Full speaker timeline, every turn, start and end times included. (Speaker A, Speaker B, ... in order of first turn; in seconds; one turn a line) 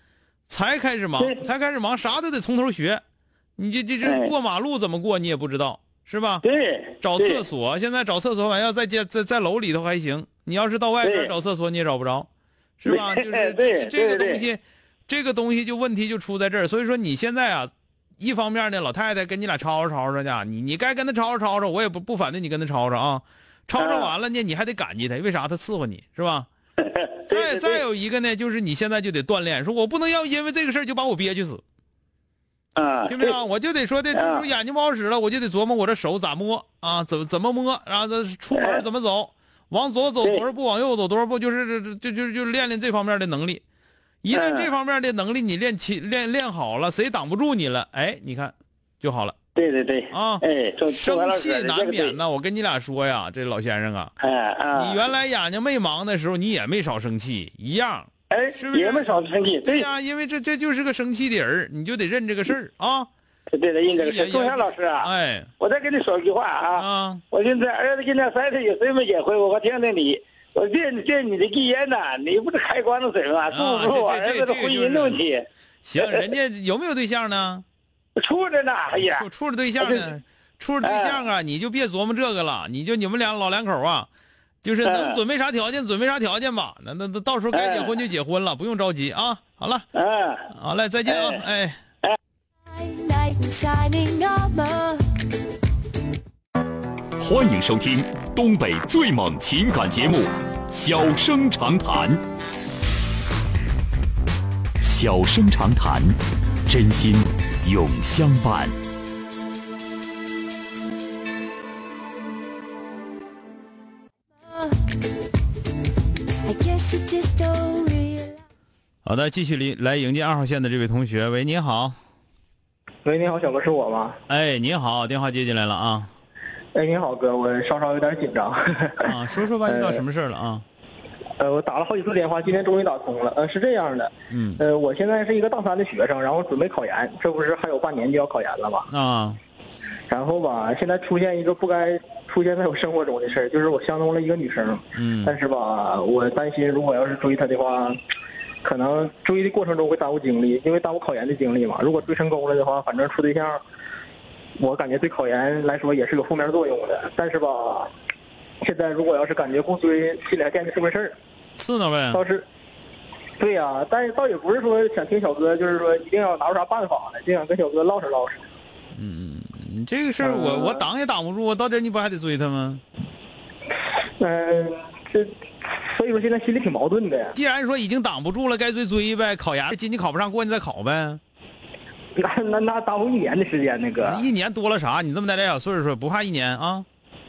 Speaker A: 0.5-3.0
Speaker B: 1.2-1.4
Speaker A: 3.6-6.4
Speaker B: 4.0-4.3
Speaker B: 6.4-7.4
Speaker A: 7.0-12.3
Speaker B: 11.0-11.3
Speaker A: 12.8-26.5
Speaker B: 12.9-14.4
Speaker B: 23.8-24.1
Speaker B: 26.8-27.8
Speaker A: 27.3-31.6
Speaker B: 32.8-33.4
Speaker A: 33.1-43.6
Speaker B: 34.1-34.5
Speaker B: 38.5-38.8
Speaker A: 44.2-49.4
Speaker B: 44.3-44.7
Speaker B: 49.5-52.2
Speaker A: 50.1-54.1
Speaker B: 54.2-55.0
Speaker A: 54.7-63.1
Speaker B: 58.3-59.9
Speaker B: 63.5-65.1
Speaker A: 63.9-65.5
Speaker B: 65.6-75.4
Speaker A: 66.8-67.2
Speaker A: 73.5-75.2
Speaker A: 75.8-77.6
Speaker B: 78.2-79.3
Speaker A: 79.0-84.1
Speaker B: 79.8-80.1
Speaker B: 80.8-81.2
Speaker A: 84.6-89.9
Speaker B: 84.8-85.2
Speaker B: 87.5-87.9
Speaker B: 89.9-90.5
Speaker A: 90.5-91.8
Speaker B: 91.1-91.4
Speaker C: 93.1-95.0
Speaker D: 97.2-102.2
Speaker D: 104.8-108.7
Speaker C: 116.5-118.2
Speaker A: 119.0-122.0
Speaker E: 123.0-124.2
Speaker A: 124.3-126.1
Speaker E: 126.7-130.0
Speaker A: 129.0-130.6
Speaker E: 131.4-138.9
Speaker A: 134.3-134.6
Speaker A: 138.9-139.4
Speaker E: 140.1-148.0
Speaker A: 144.9-145.3
Speaker E: 148.6-153.6
Speaker E: 154.6-157.9
Speaker E: 158.6-161.1
Speaker A: 161.6-162.2
Speaker E: 162.1-162.4
Speaker E: 163.4-168.4
Speaker A: 168.9-172.8
Speaker E: 170.2-170.8
Speaker E: 174.2-177.4
Speaker A: 177.4-181.2
Speaker E: 182.2-184.3
Speaker A: 184.0-186.8